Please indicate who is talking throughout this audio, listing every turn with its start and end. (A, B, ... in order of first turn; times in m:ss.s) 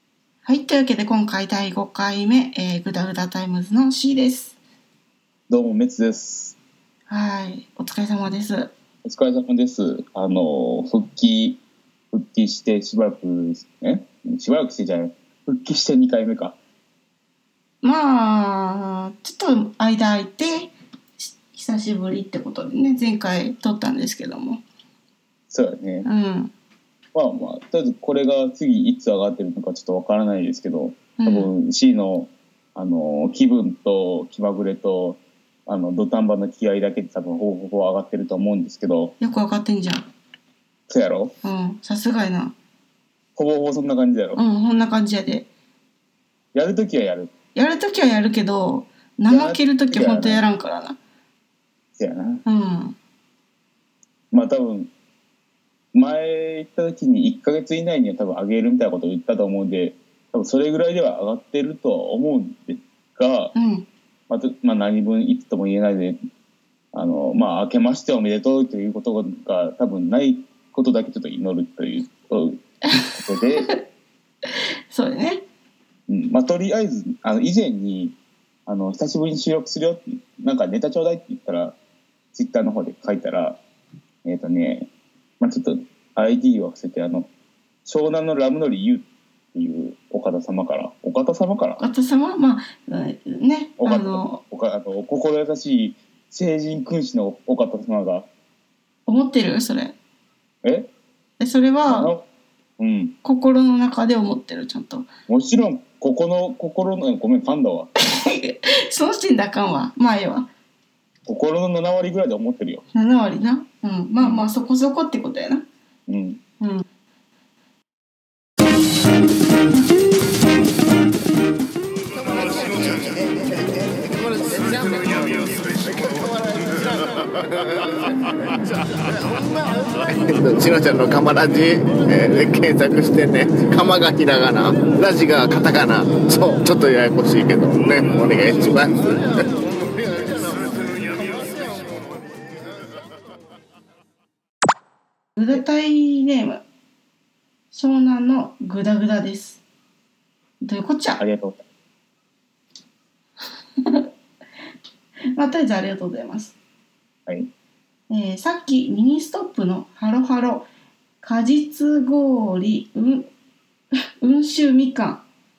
0:00.4-0:04.6 A
0:05.5-0:06.6 B
0:07.1-0:08.7 A
0:09.0-0:11.6 B
0:12.1-0:16.6 B
0:17.8-0:24.6 A
0:25.5-0:26.1 B
0:26.0-0:26.5 A
0:27.1-0:39.1 B
0:31.2-0:31.5 A
0:39.2-0:40.1 A
0:40.9-0:41.3 B
0:41.4-0:42.6 A
0:43.4-0:44.4 B
0:44.4-0:45.5 A
0:46.5-0:47.3 B
0:47.6-0:51.0 A
0:49.3-0:50.4 B
0:52.0-0:52.4 B
0:52.5-0:53.0 A
0:54.3-0:54.9 B
0:55.9-1:03.5 B
1:03.6-1:03.9 A
1:04.3-1:06.2 B
1:06.9-1:12.6 B
1:12.9-1:13.8 A
1:13.1-1:13.7 B
1:14.9-1:15.4 A
1:16.1-1:18.2 B
1:18.7-1:21.8 B
1:22.3-1:23.6 B
1:24.2-1:24.9 B
1:25.4-1:27.3 B
1:27.8-1:31.8 B
1:31.8-1:34.4 A
1:33.8-1:38.3 B
1:39.1-1:40.0 A
1:40.6-1:40.9 B
1:41.4-1:42.1 A
1:41.9-1:42.2 B
1:42.8-1:43.2 B
1:43.2-1:45.1 A
1:45.3-1:47.9 B
1:48.1-1:50.5 A
1:51.3-1:52.8 B
1:52.9-1:55.7 A
1:54.2-1:54.5 B
1:56.1-1:56.4 B
1:56.6-1:56.8 A
2:02.6-2:03.2 C
2:04.2-2:06.2 C
2:10.0-2:19.5 C
2:20.2-2:20.5 C
2:25.4-2:26.6 A
2:27.7-2:29.6 A
2:30.6-2:31.2 A
2:31.2-2:31.6 B
2:33.8-2:34.1 A
2:35.4-2:36.6 A
2:38.1-2:40.7 A
2:41.2-2:43.3 A
2:44.2-2:45.2 A